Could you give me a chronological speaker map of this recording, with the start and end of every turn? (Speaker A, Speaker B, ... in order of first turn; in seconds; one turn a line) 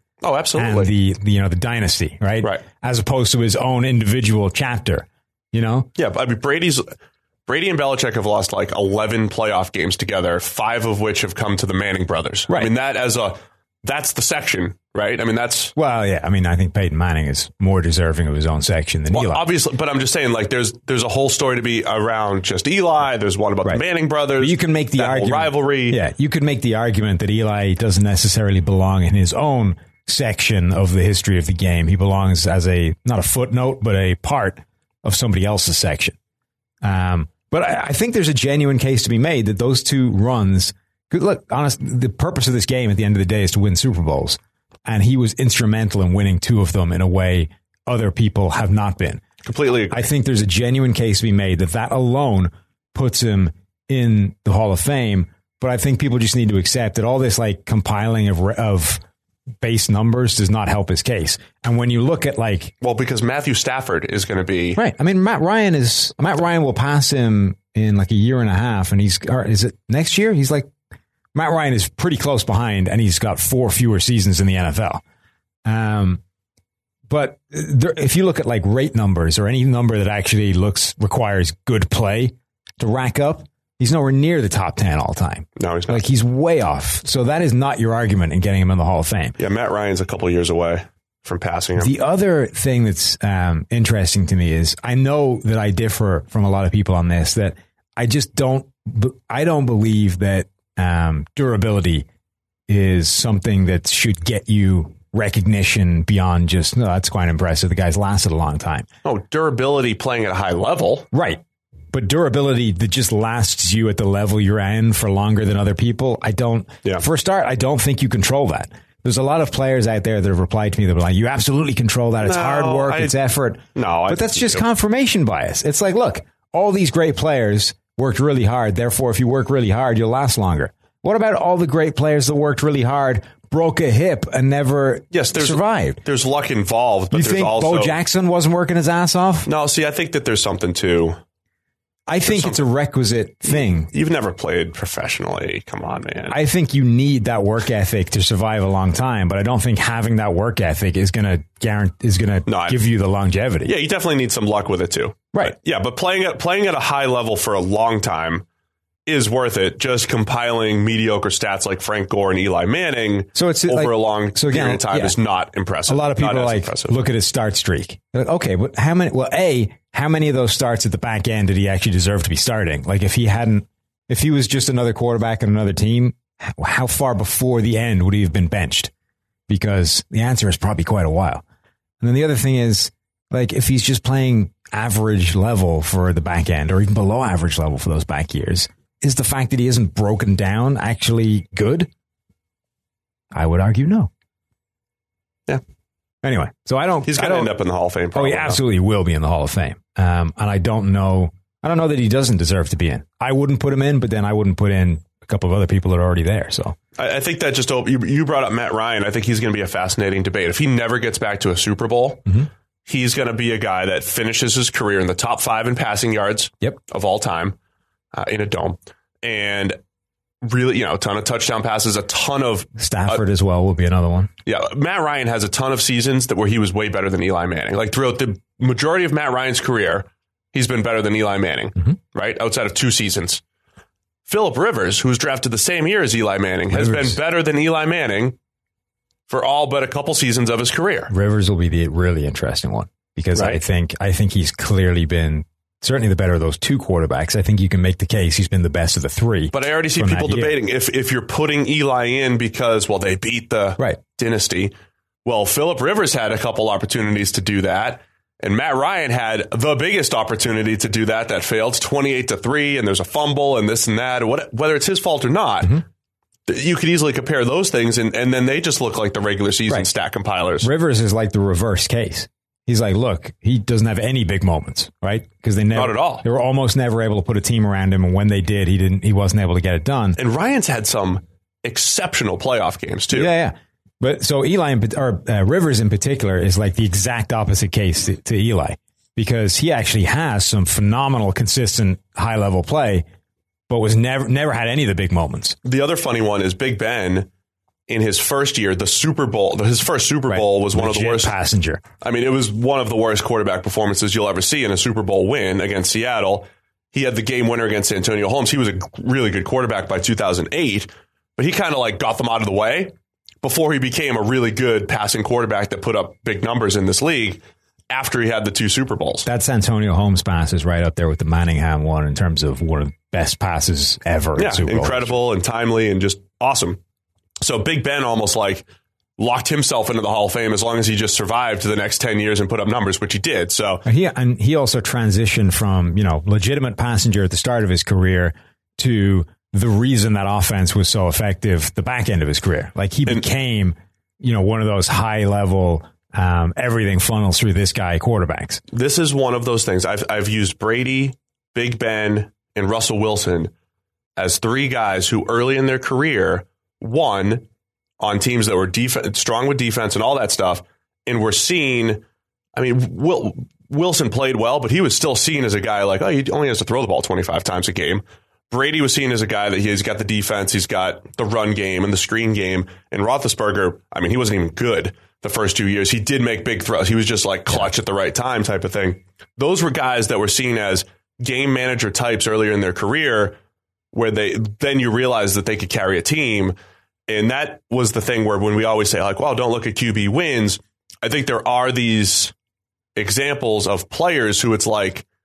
Speaker A: 0.2-0.9
Speaker B: 0.6-5.9
Speaker A: 6.0-6.8
Speaker A: 7.5-15.7
Speaker B: 15.8-19.4
Speaker A: 19.1-26.0
Speaker B: 24.4-36.2
Speaker B: 36.8-49.2
Speaker A: 49.4-50.1
Speaker B: 49.9-59.0
Speaker B: 59.6-62.8
Speaker A: 62.8-64.8
Speaker B: 64.8-70.7
Speaker B: 71.3-75.0
Speaker B: 75.7-76.2
Speaker B: 77.1-89.4
Speaker A: 85.6-86.0
Speaker A: 89.4-91.9
Speaker B: 91.8-102.1
Speaker B: 102.7-108.9
Speaker A: 109.0-111.1
Speaker B: 111.1-111.4
Speaker B: 111.9-136.0
Speaker A: 122.2-123.2
Speaker A: 123.8-124.7
Speaker A: 135.1-138.0
Speaker B: 137.1-139.5
Speaker A: 139.5-141.2
Speaker B: 142.1-143.9
Speaker A: 142.3-142.6
Speaker A: 143.9-146.4
Speaker B: 146.3-153.7
Speaker A: 152.5-152.8
Speaker A: 153.7-158.4
Speaker A: 159.1-167.0
Speaker B: 163.3-165.2
Speaker B: 165.9-178.9
Speaker B: 179.5-181.4
Speaker B: 182.0-191.9
Speaker B: 193.3-194.1
Speaker B: 196.2-197.5
Speaker A: 197.1-198.6
Speaker B: 198.1-206.8
Speaker A: 207.0-217.6
Speaker A: 218.1-219.8
Speaker A: 220.4-223.2
Speaker B: 222.8-224.3
Speaker A: 224.5-233.4
Speaker A: 234.3-238.4
Speaker B: 236.7-237.2
Speaker A: 239.3-241.1
Speaker B: 241.1-250.6
Speaker A: 243.4-243.6
Speaker A: 249.5-254.7
Speaker A: 255.2-265.8
Speaker A: 266.5-270.7
Speaker B: 270.6-280.2
Speaker A: 275.7-276.2
Speaker A: 280.2-283.3
Speaker B: 283.1-293.1
Speaker B: 293.7-295.6
Speaker A: 295.6-297.3
Speaker A: 297.9-301.3
Speaker B: 300.3-301.8
Speaker A: 302.0-319.3
Speaker B: 319.3-325.1
Speaker A: 324.4-326.8
Speaker A: 327.4-328.7
Speaker A: 329.2-333.8
Speaker B: 333.9-348.6
Speaker A: 348.7-353.5
Speaker A: 354.2-357.5
Speaker A: 358.0-362.0
Speaker A: 362.6-383.4
Speaker A: 383.9-386.6
Speaker A: 387.1-392.3
Speaker A: 393.0-395.1